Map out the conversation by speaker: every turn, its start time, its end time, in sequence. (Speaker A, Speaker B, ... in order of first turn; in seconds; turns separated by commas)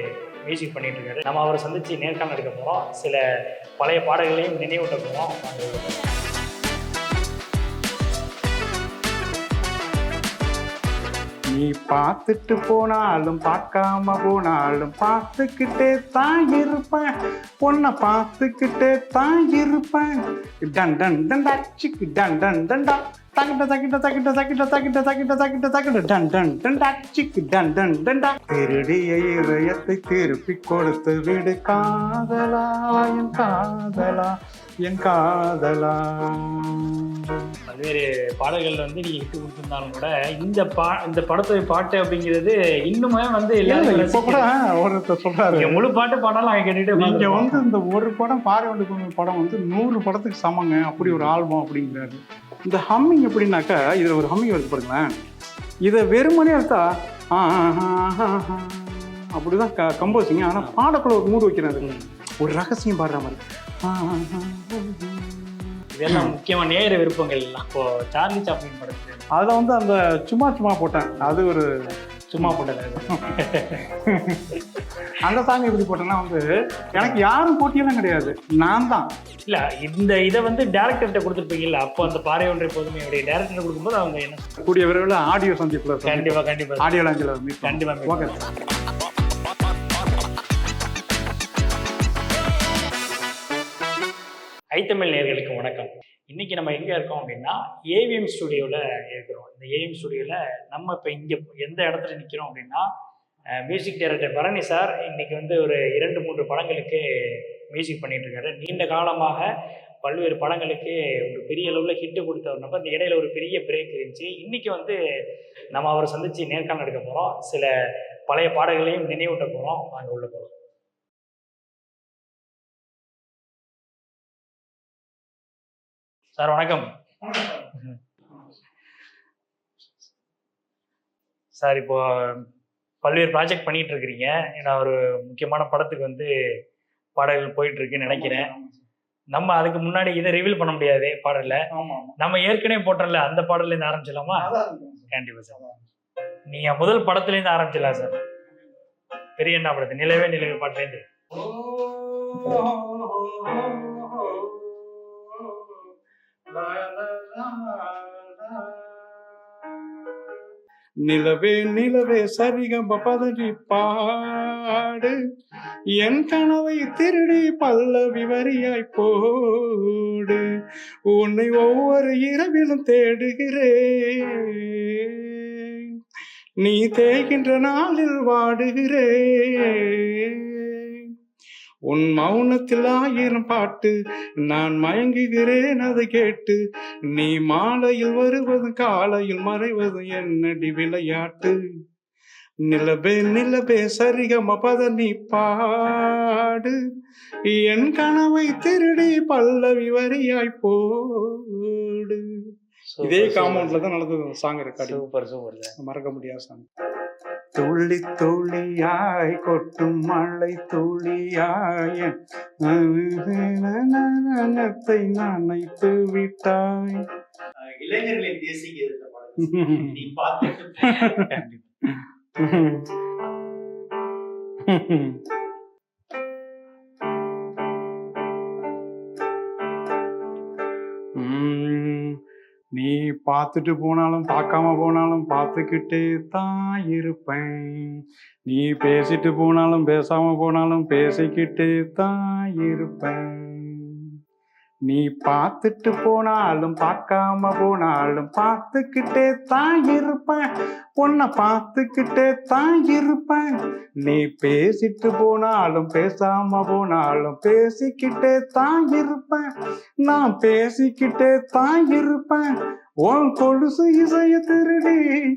Speaker A: 0.4-3.2, Speaker A: 3.8-6.0, Speaker B: 11.5-17.1, Speaker B: 17.6-34.3, Speaker B: 34.8-37.2, Speaker A: 37.7-44.4, Speaker B: 43.6-45.8, Speaker A: 45.5-47.6, Speaker B: 47.0-55.2, Speaker A: 51.0-51.3, Speaker B: 55.8-66.3, Speaker A: 61.8-62.2, Speaker A: 65.9-69.2, Speaker B: 69.3-71.7, Speaker A: 72.3-73.8, Speaker B: 74.0-79.0, Speaker A: 79.5-84.6, Speaker B: 84.6-88.4, Speaker A: 86.0-86.9, Speaker A: 87.6-88.4, Speaker A: 94.7-102.8, Speaker A: 103.6-109.5, Speaker A: 110.0-115.0, Speaker A: 115.7-117.7, Speaker A: 118.3-120.5, Speaker A: 126.4-126.9, Speaker A: 127.7-128.0, Speaker A: 131.6-132.4, Speaker A: 133.0-136.3, Speaker A: 137.2-138.5, Speaker B: 138.1-138.8, Speaker A: 139.3-141.7, Speaker B: 141.7-142.1, Speaker A: 142.2-144.5, Speaker B: 144.3-145.8, Speaker A: 145.1-145.6, Speaker A: 146.5-148.2, Speaker A: 149.4-151.0, Speaker B: 151.3-155.9, Speaker B: 156.5-160.2, Speaker B: 161.0-165.1, Speaker B: 166.0-170.4, Speaker B: 171.1-176.0, Speaker B: 176.6-181.1, Speaker B: 181.9-191.6, Speaker B: 192.7-196.8, Speaker B: 197.5-202.3, Speaker A: 202.9-203.8, Speaker B: 203.0-205.0, Speaker A: 204.8-205.8, Speaker B: 205.8-206.7, Speaker B: 207.5-217.0, Speaker C: 217.7-219.4, Speaker B: 219.4-220.1, Speaker C: 220.1-220.7, Speaker A: 220.8-221.7, Speaker B: 220.8-221.4, Speaker B: 221.9-222.9, Speaker B: 224.7-225.2, Speaker B: 231.2-232.2, Speaker B: 232.7-244.1, Speaker B: 244.8-250.4, Speaker B: 251.0-253.5, Speaker B: 254.0-259.5, Speaker B: 260.0-262.5, Speaker B: 263.0-265.1